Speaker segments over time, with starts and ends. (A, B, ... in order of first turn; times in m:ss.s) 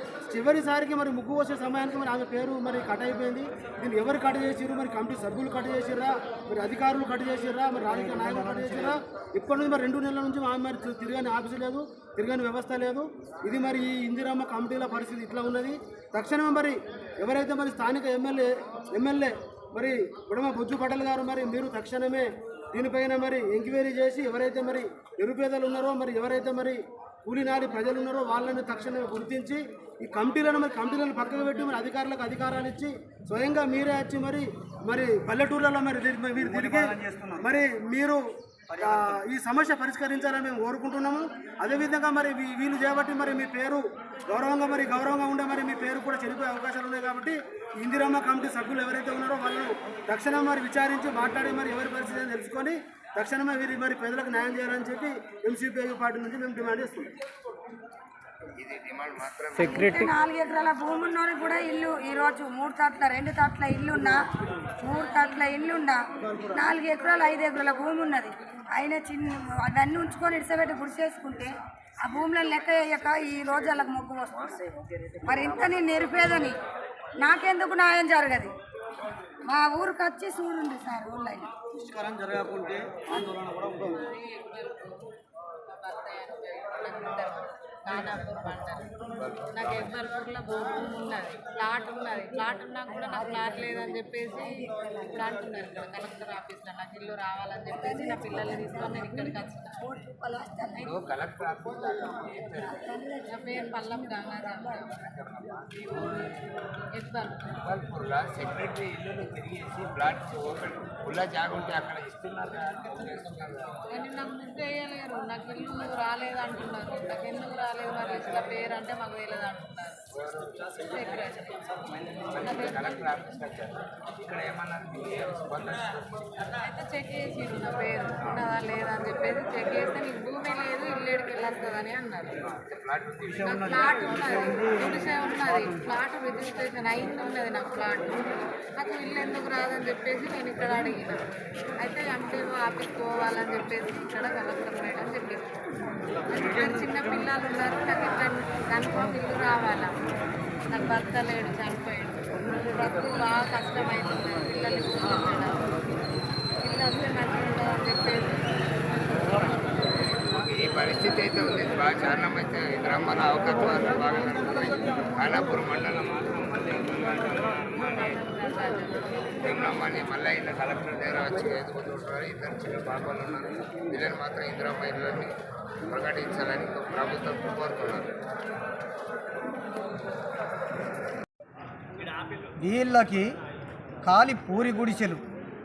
0:00.3-0:38.2 A
0:07.9-0:08.9 B
0:36.4-0:37.5 B
0:38.7-0:39.2 B
0:38.8-0:57.1 A
0:58.6-1:00.1 C
0:59.6-1:04.3 D
1:04.8-1:06.0 D
1:06.2-1:06.7 A
1:06.5-1:14.7 D
1:15.2-1:16.6 D
1:17.2-1:18.5 D
1:19.5-1:21.5 D
1:21.7-1:24.0 B
1:23.9-1:25.0 E
1:25.7-1:29.0 E
1:29.0-1:29.9 C
1:29.5-1:39.8 E
1:32.9-1:35.2 D
1:37.7-1:41.0 D
1:40.8-1:42.8 C
1:42.6-1:44.8 D
1:43.3-1:45.0 E
1:44.8-1:46.4 C
1:47.0-1:47.6 E
1:47.5-1:53.9 C
1:53.9-2:00.1 E
2:00.1-2:01.3 C
2:00.9-2:01.7 E
2:02.3-2:06.3 C
2:02.4-2:03.0 E
2:06.6-2:12.4 E
2:12.4-2:14.0 C
2:13.2-2:15.9 B
2:13.5-2:21.2 E
2:21.8-2:25.6 E
2:26.3-2:29.9 E
2:30.7-2:35.8 E
2:36.6-2:39.6 E
2:40.3-2:48.2 C
2:47.7-2:49.1 E
2:49.4-2:55.3 C
2:55.9-2:58.2 C
3:02.6-3:03.3 B
3:04.0-3:05.2 B